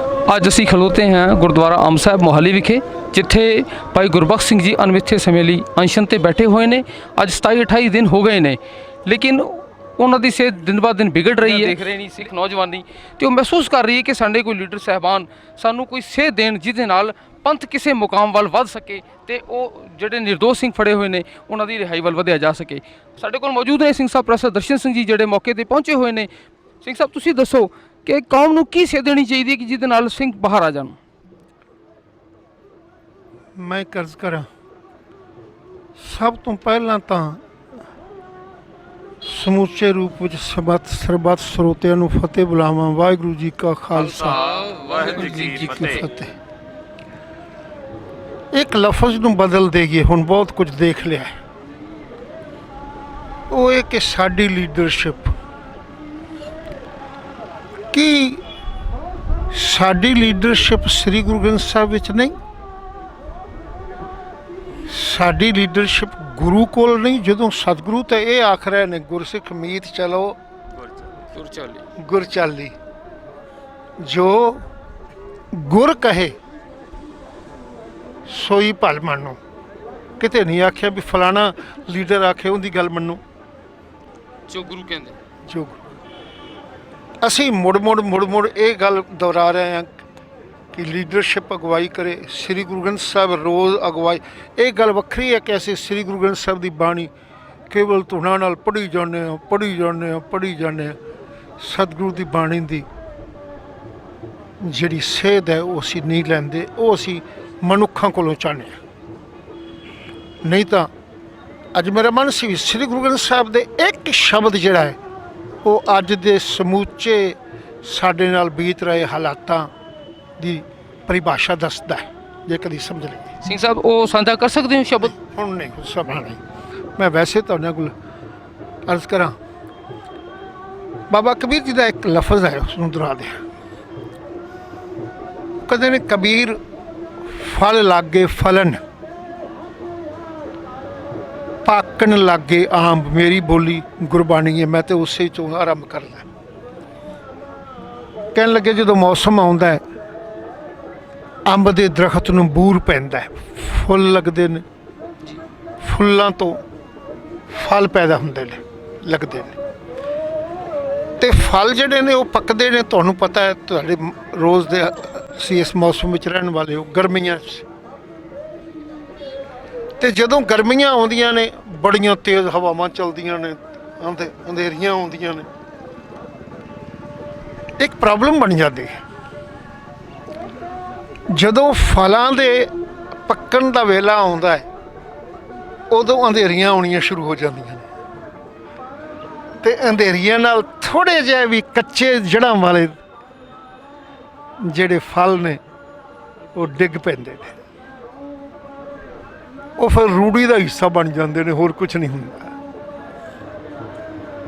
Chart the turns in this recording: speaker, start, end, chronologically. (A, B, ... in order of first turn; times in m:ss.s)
0:00.2-0:26.3 A
0:26.8-0:31.0 A
0:33.6-0:34.5 B
0:36.0-0:37.4 B
0:39.2-0:44.4 B
0:44.0-0:46.0 A
0:45.0-0:46.3 B
0:48.5-0:51.4 B
0:53.5-0:55.3 B
0:57.9-0:58.4 B
0:59.5-1:02.4 B
1:04.8-1:10.4 B
1:11.3-1:11.8 A
1:12.0-1:12.7 B
1:14.0-1:14.6 B
1:15.5-1:16.4 B
1:18.3-1:19.4 B
1:20.2-1:23.2 B
1:24.5-1:25.2 A
1:25.5-1:25.8 B
1:27.2-1:29.9 B
1:30.7-1:37.1 B
1:37.7-1:41.0 B
1:41.6-1:42.8 B
1:44.6-1:48.8 B
1:50.4-1:50.9 B
1:51.7-1:55.0 B
1:55.6-1:59.7 B
2:00.4-2:03.3 B
2:03.4-2:05.1 A
2:05.0-2:06.4 B
2:07.0-2:07.9 B
2:08.9-2:09.3 B
2:11.1-2:13.4 B
2:15.6-2:16.6 B
2:17.2-2:18.8 B
2:21.6-2:26.3 B
2:28.3-2:29.8 B
2:31.4-2:34.6 B
2:35.8-2:36.6 B
2:37.5-2:39.6 B
2:41.2-2:47.7 B
2:50.0-2:55.5 B
2:57.8-2:59.0 B
3:01.3-3:02.7 B
3:03.2-3:04.7 B
3:05.9-3:07.8 B
3:09.6-3:13.0 B
3:14.6-3:15.6 B
3:16.5-3:17.6 B
3:19.8-3:22.5 B